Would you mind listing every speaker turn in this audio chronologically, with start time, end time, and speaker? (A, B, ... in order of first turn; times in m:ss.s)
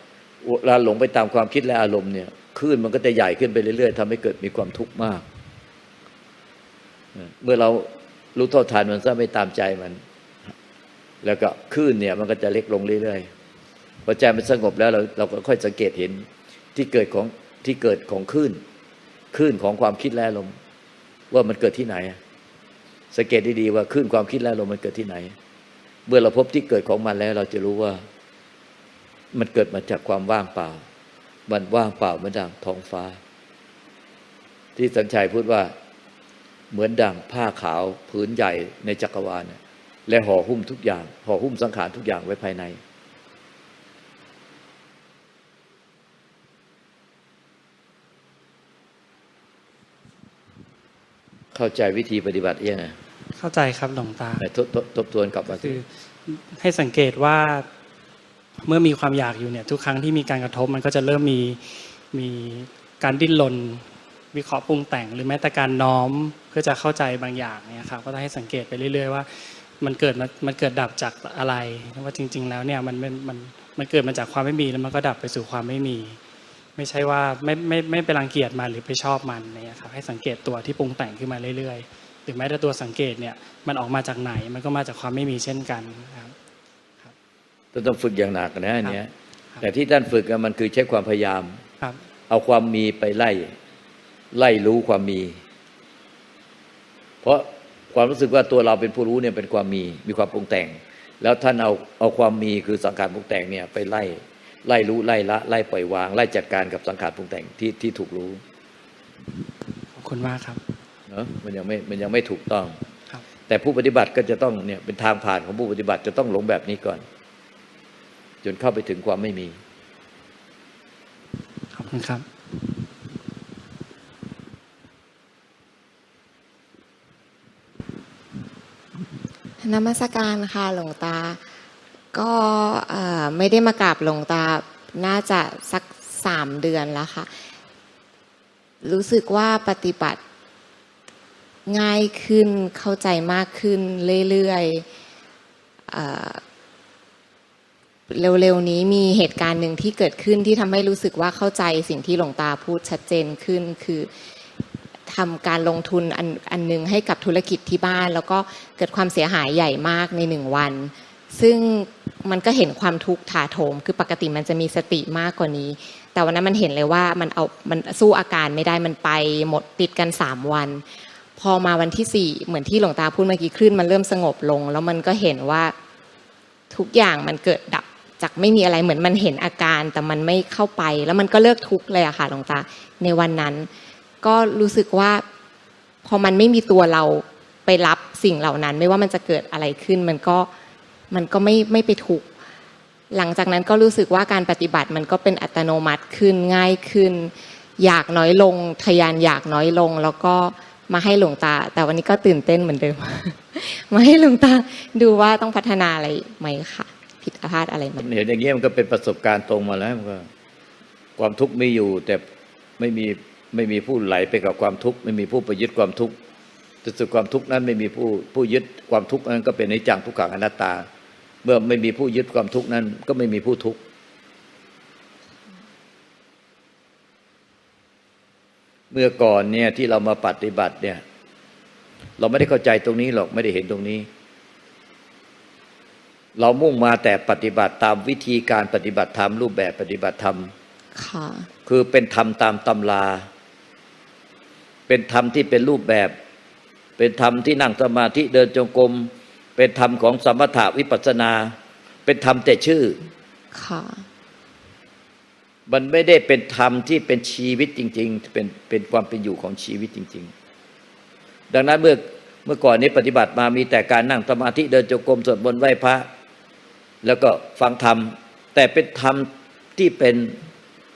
0:00.4-0:05.2 A
0:07.1-0:10.0 A
0:11.2-0:13.3 A
0:14.0-0:18.6 A
0:19.3-0:20.5 A
0:21.3-0:22.2 A
0:23.1-0:25.3 A
0:26.1-0:28.0 A
0:29.3-0:30.8 A
0:31.5-0:33.2 A
0:34.8-0:35.7 A
0:36.7-0:42.8 A
0:51.5-0:53.0 A
0:53.3-0:54.4 B
0:54.4-0:55.8 A
0:55.5-0:57.7 B
0:58.6-1:16.2 B
1:16.8-1:26.3 B
1:27.7-1:31.6 A
1:32.3-1:33.5 A
1:34.3-1:35.4 A
1:37.2-1:48.4 A
1:49.9-1:50.6 B
1:51.1-1:52.8 A
1:53.5-1:57.0 A
1:58.4-1:59.6 A
2:01.7-2:02.2 B
2:09.6-2:11.4 C
2:12.1-2:17.3 C
2:18.8-2:20.2 C
2:21.7-2:24.8 C
2:25.9-2:26.4 C
2:28.1-2:34.1 C
2:35.1-2:50.8 C
2:51.4-2:55.7 C
2:56.7-3:03.7 C
3:04.2-3:05.2 C
3:06.0-3:10.5 C
3:11.1-3:12.3 C
3:13.1-3:28.1 C
3:28.0-3:30.3 A
3:31.2-3:32.2 A
3:32.8-3:36.2 A
3:36.8-3:40.8 A
3:41.4-3:43.8 A
3:48.9-3:51.0 A
3:52.2-3:54.1 A
3:56.4-4:00.5 A
4:00.9-4:01.5 C
4:01.6-4:03.3 A
4:04.9-4:06.1 A
4:07.0-4:11.5 A
4:12.0-4:13.0 A
4:13.5-4:14.1 C
4:15.7-4:20.3 A
4:21.5-4:26.1 A
4:27.0-4:30.4 A